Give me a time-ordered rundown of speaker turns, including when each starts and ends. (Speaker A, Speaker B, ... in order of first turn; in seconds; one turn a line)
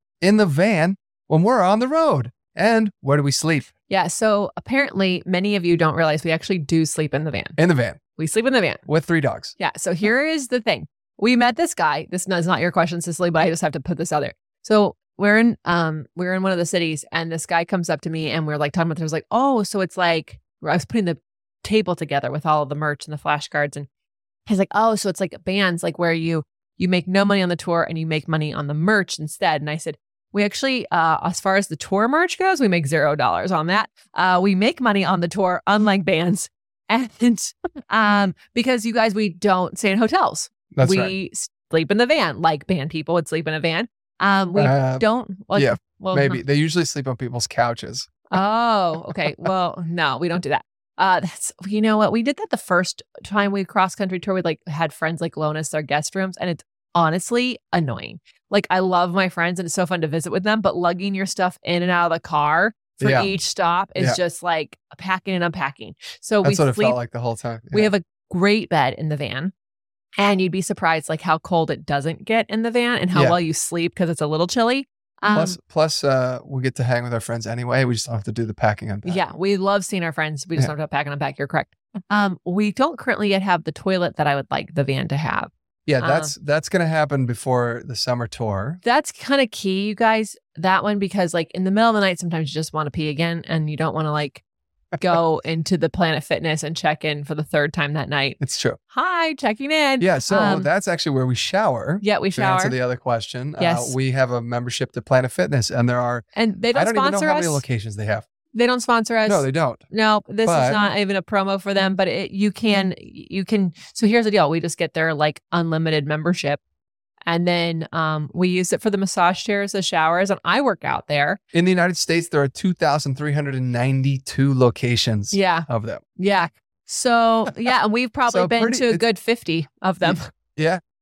Speaker A: 0.2-3.7
Speaker B: 3.9-7.6
Speaker A: 7.6-8.0
Speaker B: 8.2-8.8
Speaker A: 8.9-9.5
Speaker B: 9.6-23.9
Speaker B: 24.5-46.4
Speaker A: 40.7-41.1
Speaker A: 44.5-48.3
Speaker B: 48.3-67.0
Speaker A: 63.0-63.3
Speaker A: 66.4-67.9
Speaker B: 67.7-69.5
Speaker B: 70.2-75.6
Speaker A: 75.3-79.2
Speaker B: 79.0-86.3
Speaker A: 85.8-88.8
Speaker B: 88.8-94.4
Speaker B: 95.0-98.4
Speaker A: 98.4-98.8
Speaker B: 98.9-100.7
Speaker A: 100.0-108.2
Speaker B: 102.0-102.8
Speaker B: 103.6-103.9
Speaker B: 106.3-107.6
Speaker B: 108.5-116.6
Speaker A: 109.2-109.8
Speaker A: 110.4-110.8
Speaker B: 117.3-121.4
Speaker A: 121.5-126.0
Speaker B: 125.3-130.3
Speaker A: 128.3-129.0
Speaker A: 130.0-130.8